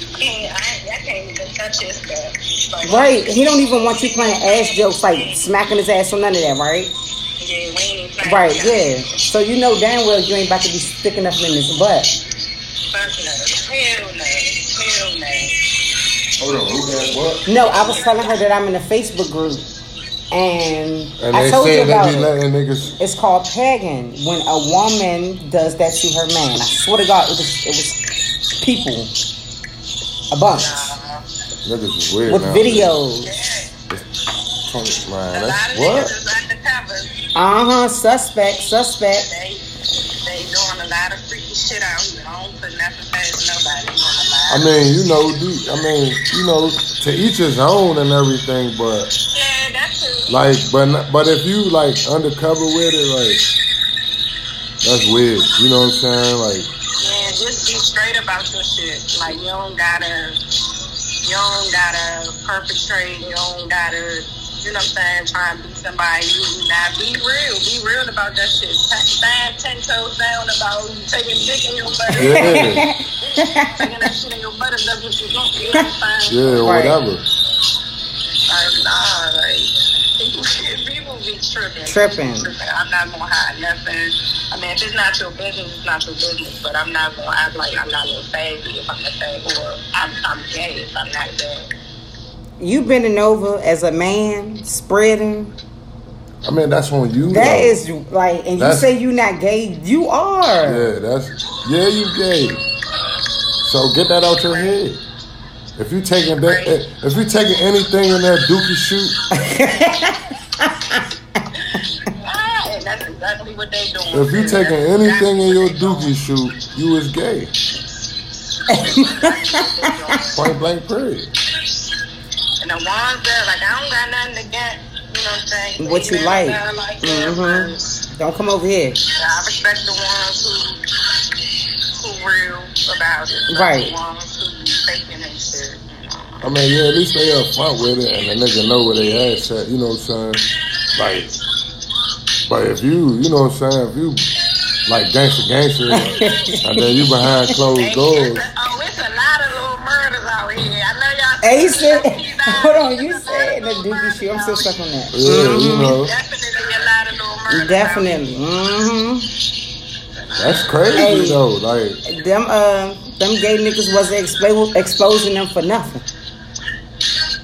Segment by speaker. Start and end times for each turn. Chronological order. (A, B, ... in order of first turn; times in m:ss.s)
0:00.2-0:05.4 A
0:02.8-0:07.0 B
0:07.4-0:08.9 A
0:08.2-0:12.1 B
0:12.9-0:15.6 A
0:16.4-0:17.5 C
0:17.5-0:19.7 B
0:17.7-0:18.4 A
0:20.3-0:22.3 B
0:21.2-0:23.0 C
0:23.0-0:28.0 B
0:28.6-0:29.1 B
0:30.3-0:30.9 B
0:30.5-0:31.2 A
0:31.6-0:33.0 C
0:32.3-0:33.3 B
0:33.3-0:33.7 A
0:34.6-0:36.2 C
0:35.3-0:37.2 A
0:37.4-0:39.3 B
0:39.1-0:39.6 A
0:40.2-0:44.7 A
0:44.5-0:49.1 C
0:49.3-0:50.4 A
0:50.3-0:53.5 C
0:54.8-0:56.7 C
0:57.0-1:00.4 A
1:01.2-1:12.7 A
1:12.1-1:12.9 C
1:12.1-1:13.9 B
1:13.3-1:16.7 A
1:16.3-1:17.2 C
1:16.5-1:17.0 B
1:18.5-1:31.7 A
1:21.9-1:22.5 B
1:32.6-1:35.6 B
1:36.4-1:37.8 C
1:37.3-1:40.9 B
1:38.6-1:38.9 C
1:40.6-1:42.6 C
1:43.6-1:45.0 C
1:45.8-1:49.2 C
1:46.4-1:46.8 A
1:49.3-1:51.4 B
1:52.1-1:56.1 A
1:54.1-1:57.6 C
1:58.7-2:00.2 B
1:58.7-2:00.5 A
2:00.3-2:01.3 C
2:02.6-2:08.0 A
2:05.8-2:09.0 B
2:09.1-2:10.8 A
2:12.0-2:16.5 A
2:13.5-2:14.0 B
2:16.4-2:21.4 C
2:22.5-2:24.3 C
2:24.9-2:28.5 C
2:25.9-2:26.9 B
2:26.2-2:26.6 A
2:27.7-2:34.6 A
2:31.4-2:36.0 B
2:35.1-2:36.1 C
2:36.0-2:38.4 A
2:37.5-2:39.3 B
2:40.2-2:41.2 A
2:40.4-2:42.0 C
2:40.9-2:41.4 B
2:42.0-2:46.1 B